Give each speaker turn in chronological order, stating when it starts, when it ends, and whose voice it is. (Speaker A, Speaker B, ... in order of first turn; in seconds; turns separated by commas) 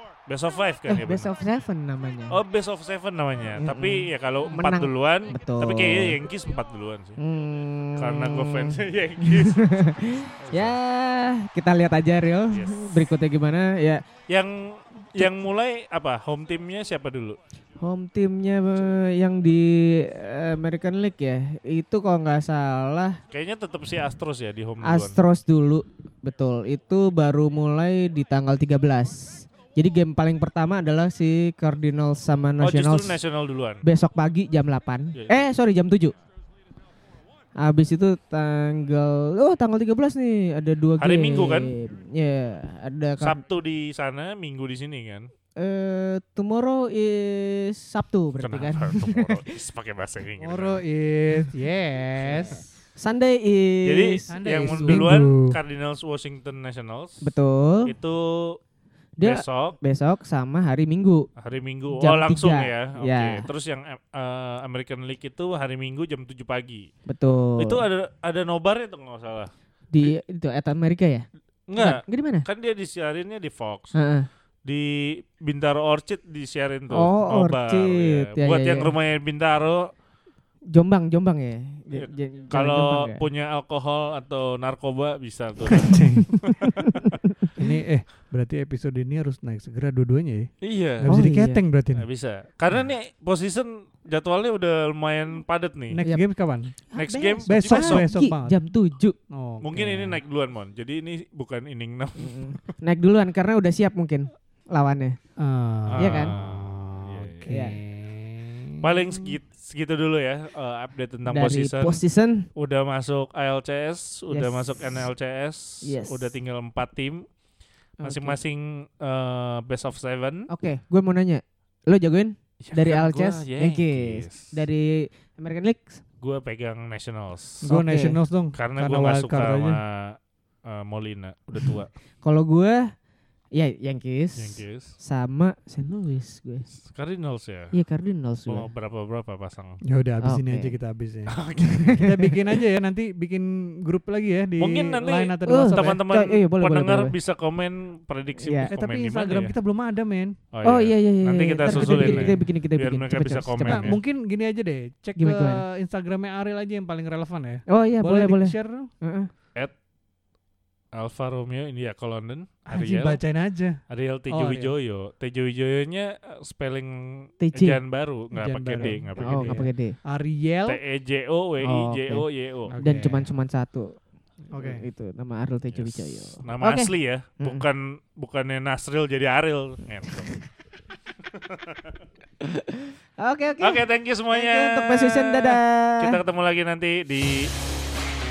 Speaker A: 0.3-1.3, Speaker B: 0.9-2.4, Speaker A: 2.3-7.2, Speaker B: 3.5-6.2, Speaker B: 7.2-14.0, Speaker A: 8.0-9.7, Speaker A: 10.4-10.8, Speaker A: 12.5-13.0, Speaker A: 14.3-17.4, Speaker B: 17.8-23.2, Speaker A: 23.3-25.2, Speaker B: 24.8-33.2, Speaker A: 32.6-33.9, Speaker B: 33.8-36.2, Speaker B: 37.6-43.4, Speaker A: 41.0-41.8, Speaker A: 43.2-45.3, Speaker B: 45.6-49.4, Speaker A: 48.4-50.8, Speaker C: 50.4-52.6, Speaker B: 52.2-55.2, Speaker A: 53.9-57.2, Speaker C: 54.3-55.6, Speaker B: 57.2-57.9, Speaker A: 57.9-58.6, Speaker B: 59.2-61.3, Speaker A: 59.2-59.8, Speaker A: 61.4-66.9, Speaker B: 61.9-63.5, Speaker B: 67.1-67.8, Speaker A: 67.6-69.5, Speaker B: 69.9-71.3, Speaker A: 71.7-74.0, Speaker B: 71.8-72.5, Speaker B: 73.9-74.3, Speaker A: 74.7-79.8, Speaker B: 76.9-79.0, Speaker B: 80.7-83.2, Speaker A: 81.9-86.9, Speaker C: 85.9-86.5, Speaker C: 87.6-92.1, Speaker A: 90.6-91.3, Speaker B: 91.1-91.6, Speaker A: 91.9-96.0, Speaker C: 95.9-96.8, Speaker B: 96.0-96.3, Speaker B: 96.9-99.2, Speaker A: 97.0-98.1, Speaker C: 97.4-98.6, Speaker C: 99.1-100.2, Speaker A: 99.6-102.6, Speaker B: 102.2-105.2, Speaker C: 105.4-109.0, Speaker A: 105.9-107.5, Speaker B: 106.0-106.3, Speaker B: 107.5-107.8, Speaker A: 108.8-112.0, Speaker B: 111.3-112.5, Speaker A: 112.5-117.3, Speaker B: 114.3-114.7, Speaker B: 115.8-116.3, Speaker B: 118.0-118.4, Speaker A: 118.0-120.5, Speaker B: 120.5-126.0, Speaker A: 122.6-124.5, Speaker A: 126.2-127.8, Speaker C: 127.6-129.8, Speaker B: 127.8-128.2, Speaker A: 128.5-131.9, Speaker B: 132.2-132.9, Speaker B: 133.6-136.7, Speaker A: 134.4-134.9, Speaker A: 136.9-137.7, Speaker B: 137.7-138.7, Speaker A: 138.5-139.8, Speaker C: 139.8-146.0, Speaker B: 140.2-140.8, Speaker A: 141.3-142.0, Speaker B: 141.7-142.3, Speaker A: 144.6-149.6, Speaker B: 145.5-147.2, Speaker B: 148.4-148.7, Speaker C: 148.7-150.4, Speaker A: 150.5-154.0, Speaker B: 150.6-153.9, Speaker C: 151.6-152.4, Speaker C: 153.7-158.9, Speaker B: 155.2-155.6, Speaker B: 157.7-159.3, Speaker A: 160.9-163.2, Speaker C: 162.7-164.8, Speaker A: 163.9-169.6, Speaker B: 167.4-167.8, Speaker C: 168.3-170.8, Speaker B: 169.2-170.0, Speaker A: 170.7-172.8, Speaker B: 171.6-177.7, Speaker C: 172.7-173.3, Speaker C: 174.5-174.9, Speaker A: 175.7-180.3, Speaker B: 180.1-180.4, Speaker A: 181.3-181.9, Speaker B: 182.4-186.2, Speaker A: 183.6-187.5